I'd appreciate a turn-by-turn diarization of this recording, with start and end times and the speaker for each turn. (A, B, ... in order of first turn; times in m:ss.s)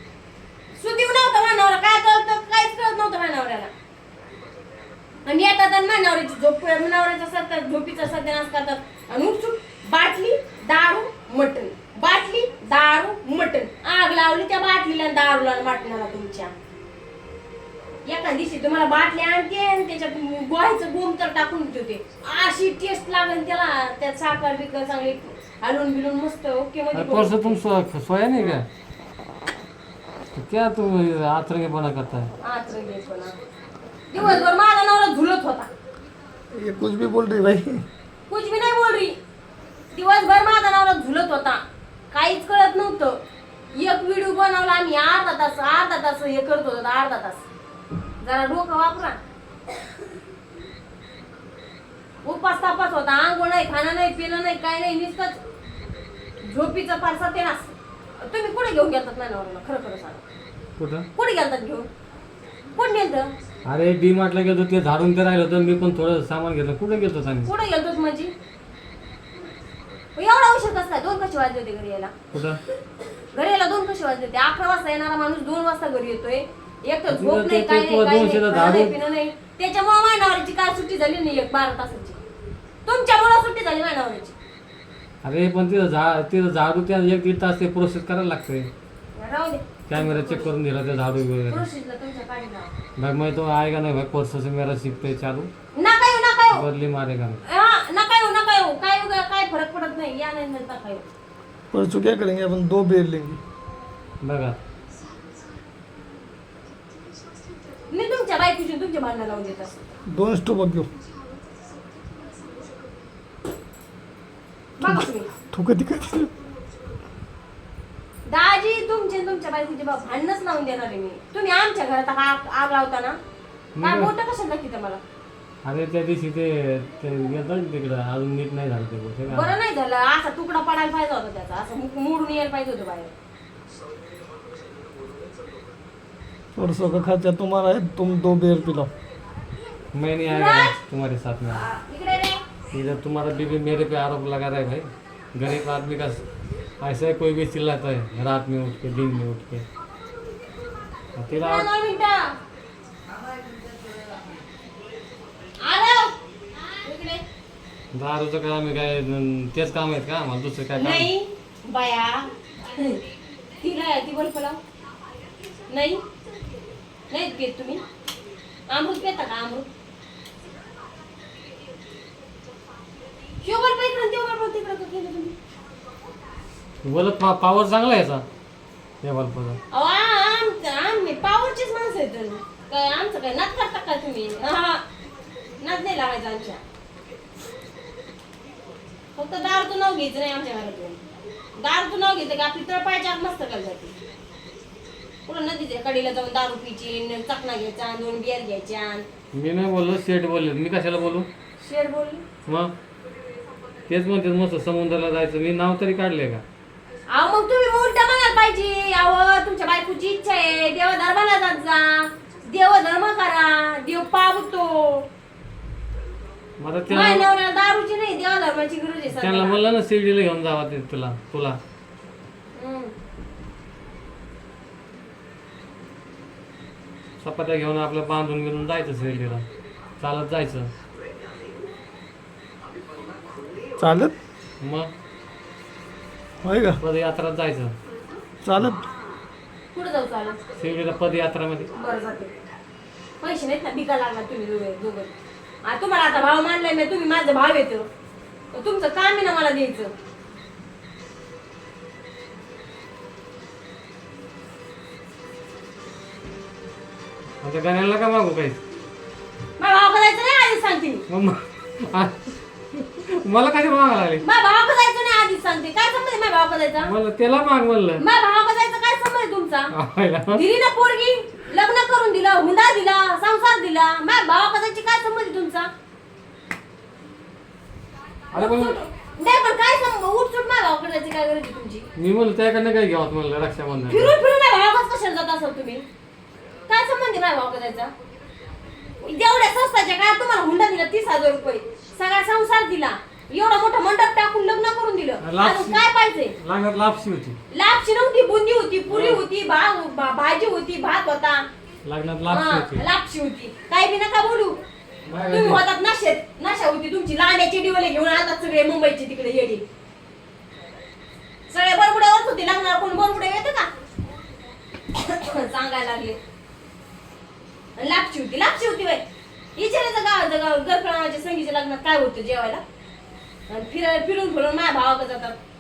0:00.8-0:03.7 A
0:05.2-0:16.5 A
0:18.1-0:27.6 A
0:26.9-0:28.7 B
0:30.4-0:32.3 B
0:32.4-0:33.4 A
0:34.1-0:35.7 A
0:36.5-0:37.8 C
0:38.3-0:39.2 A
0:39.9-0:43.2 A
0:43.7-0:47.4 A
0:48.2-0:49.2 A
0:52.2-0:55.4 A
0:56.4-1:00.2 A
1:00.8-1:01.1 B
1:01.2-1:01.9 A
1:02.8-1:03.4 A
1:03.7-1:07.5 B
1:07.4-1:08.3 A
1:10.2-1:12.1 A
1:12.3-1:12.6 B
1:13.3-1:22.2 A
1:17.1-1:19.0 B
1:22.8-1:24.4 A
1:25.2-1:28.7 B
1:29.2-1:30.5 A
1:29.9-1:31.7 B
1:31.5-1:32.7 A
1:33.0-1:35.5 B
1:35.7-1:36.6 A
1:36.5-1:37.4 B
1:37.4-1:41.1 A
1:41.7-1:43.4 C
1:44.2-1:44.6 B
1:47.9-1:49.7 A
1:50.1-1:50.9 C
1:54.8-1:55.3 A
1:54.8-1:56.3 C
1:58.3-2:03.2 A
2:03.8-2:04.1 B
2:03.8-2:05.0 A
2:05.6-2:09.6 B
2:09.3-2:13.1 A
2:16.6-2:18.9 C
2:19.9-2:21.7 B
2:20.3-2:20.8 A
2:21.6-2:22.4 A
2:22.7-2:26.2 B
2:26.8-2:29.6 B
2:31.2-2:31.7 B
2:31.3-2:32.4 A
2:35.6-2:37.2 A
2:37.9-2:41.1 B
2:40.8-2:43.0 A
2:43.6-2:44.6 A
2:45.7-2:46.0 A
2:47.1-2:47.8 A
2:48.7-2:49.7 A
2:53.4-2:55.4 A
2:56.8-2:58.2 B
2:59.0-2:59.6 B
2:59.7-3:04.8 A
3:05.6-3:06.6 A
3:09.2-3:11.0 A
3:11.6-3:14.0 A
3:15.3-3:19.0 A
3:19.3-3:21.3 B
3:21.6-3:22.3 A
3:22.5-3:22.7 B
3:23.9-3:26.4 B
3:27.1-3:35.1 A
3:36.6-3:37.2 B
3:36.9-3:39.6 A
3:39.1-3:41.6 B
3:42.5-3:42.9 A
3:47.2-3:49.5 B
3:50.0-3:50.7 B
3:53.8-3:54.1 C
3:54.6-3:54.9 B
3:56.4-3:56.8 C
3:56.8-3:57.8 B
3:58.4-3:58.9 C
3:59.7-4:00.4 A
4:00.6-4:01.7 B
4:01.7-4:02.3 A
4:03.2-4:07.9 A
4:08.5-4:09.9 A
4:17.4-4:18.6 B
4:19.6-4:21.0 A
4:21.1-4:24.2 B
4:24.2-4:26.9 A
4:26.8-4:28.0 B
4:28.0-4:29.7 A
4:29.7-4:30.4 B
4:30.3-4:35.7 A
4:38.3-4:38.8 B
4:38.3-4:41.9 A
4:42.0-4:44.2 B
4:43.9-4:45.8 A
4:46.7-4:47.9 A
4:49.0-4:56.4 A
4:55.2-4:57.4 B
4:57.5-5:01.5 A
4:58.9-4:59.2 B
5:01.8-5:02.8 B
5:02.3-5:04.6 A
5:05.1-5:05.6 B
5:05.2-5:09.6 A
5:11.5-5:13.7 A
5:14.9-5:16.2 A
5:17.8-5:19.0 A
5:19.6-5:22.6 A
5:23.5-5:25.4 A